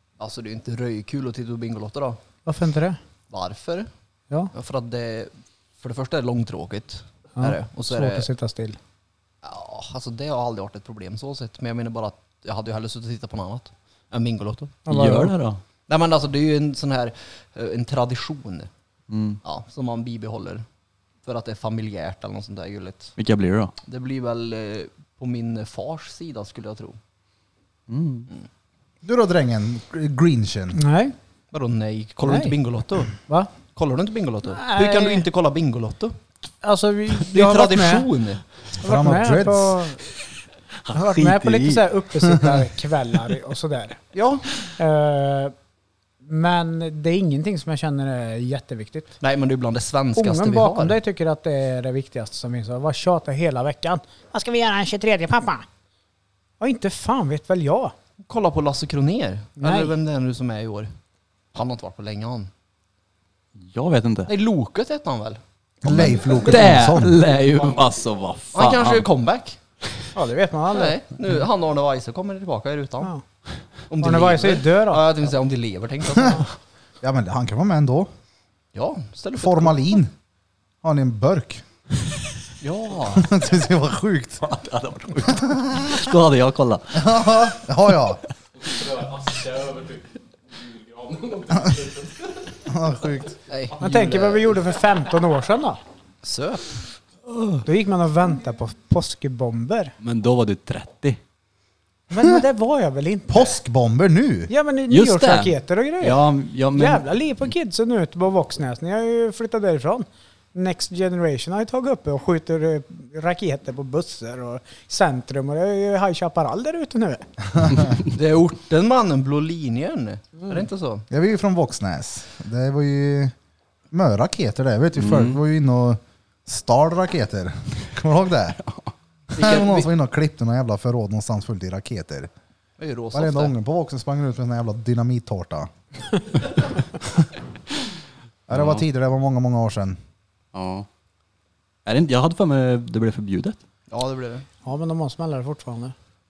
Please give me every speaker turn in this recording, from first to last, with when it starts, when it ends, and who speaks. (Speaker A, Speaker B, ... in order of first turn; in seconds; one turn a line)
Speaker A: 0.2-2.2
Speaker B: 2.4-3.0
Speaker A: 3.3-3.9
Speaker A: 4.5-8.3
Speaker B: 7.4-8.8
Speaker A: 9.4-14.8
Speaker B: 14.8-15.3
Speaker C: 14.9-15.6
Speaker A: 15.9-18.7
Speaker C: 19.1-19.4
Speaker A: 19.4-20.6
Speaker A: 21.2-23.1
Speaker C: 23.2-23.7
Speaker A: 23.9-27.0
Speaker C: 27.9-28.3
Speaker D: 29.0-30.8
Speaker B: 30.7-31.1
Speaker A: 31.5-33.1
Speaker B: 32.2-32.5
Speaker A: 33.7-36.2
Speaker B: 34.5-35.2
Speaker B: 36.6-38.1
Speaker A: 37.2-38.4
Speaker D: 38.8-39.8
Speaker B: 38.8-40.0
Speaker C: 40.9-41.8
Speaker B: 40.9-44.0
Speaker A: 44.1-44.5
Speaker B: 44.8-45.5
Speaker B: 46.2-49.1
Speaker A: 49.2-51.0
Speaker B: 50.1-55.6
Speaker B: 56.6-57.9
Speaker A: 58.2-60.9
Speaker B: 59.6-59.9
Speaker A: 61.5-62.5
Speaker C: 63.6-64.3
Speaker A: 64.3-65.4
Speaker D: 65.8-67.2
Speaker C: 65.9-69.0
Speaker A: 68.5-69.6
Speaker B: 70.1-71.0
Speaker A: 70.7-73.1
Speaker A: 73.9-76.4
Speaker B: 74.0-75.0
Speaker D: 77.0-78.1
Speaker A: 78.7-80.0
Speaker D: 79.4-80.1
Speaker D: 80.8-81.6
Speaker A: 82.6-83.3
Speaker D: 83.1-84.4
Speaker C: 84.4-87.5
Speaker D: 85.3-85.9
Speaker D: 86.9-88.2
Speaker E: 88.6-92.3
Speaker D: 92.7-93.4
Speaker A: 93.5-94.6
Speaker B: 93.8-95.8
Speaker A: 96.2-96.7
Speaker C: 97.3-97.6
Speaker B: 97.6-99.9
Speaker C: 100.0-101.2
Speaker B: 102.1-103.5
Speaker D: 103.3-104.5
Speaker B: 104.5-117.3
Speaker C: 104.9-107.5
Speaker A: 118.0-121.0
Speaker D: 121.1-123.3
Speaker D: 123.9-128.6
Speaker C: 125.0-125.4
Speaker A: 129.3-129.9
Speaker D: 129.4-132.3
Speaker A: 132.8-133.5
Speaker D: 133.1-135.7
Speaker D: 138.5-140.0
Speaker C: 138.5-138.8
Speaker C: 140.5-140.9
Speaker C: 141.8-143.6
Speaker A: 143.9-144.5
Speaker B: 144.6-145.9